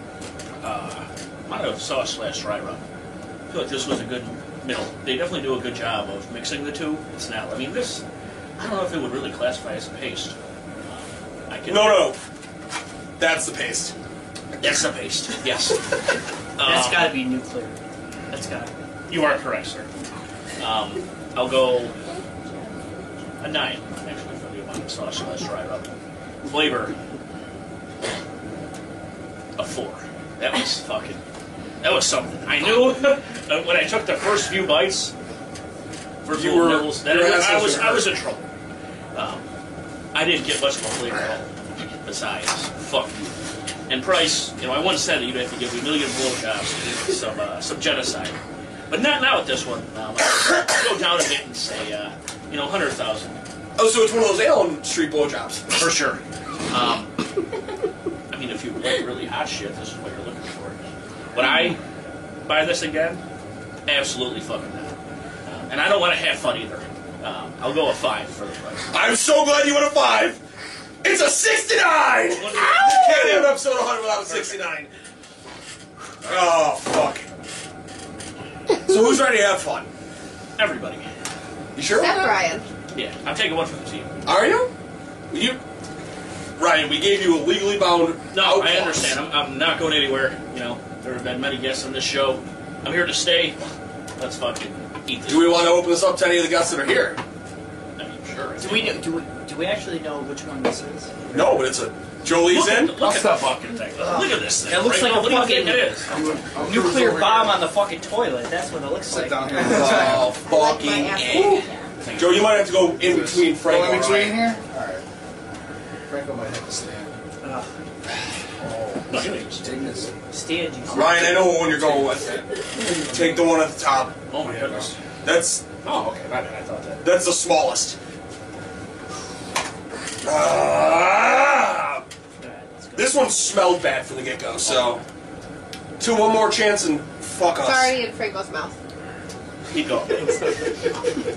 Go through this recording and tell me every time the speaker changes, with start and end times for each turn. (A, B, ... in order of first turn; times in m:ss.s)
0:00.6-0:02.8 A
0:03.5-0:08.0 A
0:08.6-0:10.3 A
0:10.9-0:12.1 A
0:11.7-0:12.2 B
0:13.2-0:13.9 B
0:14.6-0:14.9 B
0:14.6-0:15.9 A
0:16.6-0:17.2 A
0:16.6-0:17.8 C
0:18.3-0:18.7 C
0:19.1-0:19.9 A
0:20.6-0:21.9 A
0:23.4-0:25.9 A
0:26.4-0:26.9 A
0:29.6-0:31.2 A
0:31.8-0:35.1 A
0:36.2-0:38.4 A
0:36.3-0:38.2 B
0:39.1-0:39.4 A
0:40.1-0:43.4 A
0:43.9-0:48.4 A
0:48.9-0:53.4 A
0:53.8-0:55.9 B
0:55.7-0:57.2 A
0:58.3-1:00.8 A
1:01.3-1:01.8 A
1:02.4-1:03.2 A
1:03.8-1:04.9 A
1:05.5-1:08.9 A
1:08.9-1:10.4 B
1:11.0-1:14.9 B
1:12.3-1:13.4 A
1:14.3-1:14.6 A
1:16.2-1:17.2 B
1:18.8-1:19.9 B
1:20.6-1:21.1 A
1:21.7-1:22.4 B
1:21.9-1:22.6 D
1:22.9-1:24.2 A
1:24.2-1:24.7 B
1:25.3-1:25.6 B
1:26.6-1:29.2 B
1:28.3-1:33.6 A
1:34.2-1:35.8 A
1:35.3-1:37.2 B
1:38.0-1:39.0 A
1:38.6-1:41.5 C
1:41.3-1:43.0 B
1:42.4-1:46.1 A
1:43.0-1:43.8 E
1:44.0-1:46.0 C
1:46.1-1:47.6 E
1:46.6-1:50.2 C
1:49.1-1:50.3 E
1:49.6-1:51.6 B
1:50.4-1:51.8 D
1:52.0-1:52.6 A
1:52.2-1:54.5 B
1:52.8-1:55.0 E
1:56.1-1:57.2 E
1:57.4-1:57.7 C
1:58.6-2:00.1 E
1:59.1-2:00.0 A
2:00.3-2:02.1 C
2:00.9-2:04.2 B
2:02.8-2:03.4 E
2:04.3-2:04.9 A
2:04.4-2:04.9 E
2:05.2-2:05.6 B
2:05.8-2:07.0 A
2:07.0-2:08.0 B
2:10.2-2:12.0 B
2:12.4-2:13.2 C
2:13.0-2:15.0 B
2:14.6-2:15.0 A
2:16.0-2:18.0 B
2:17.6-2:18.7 D
2:19.7-2:20.8 A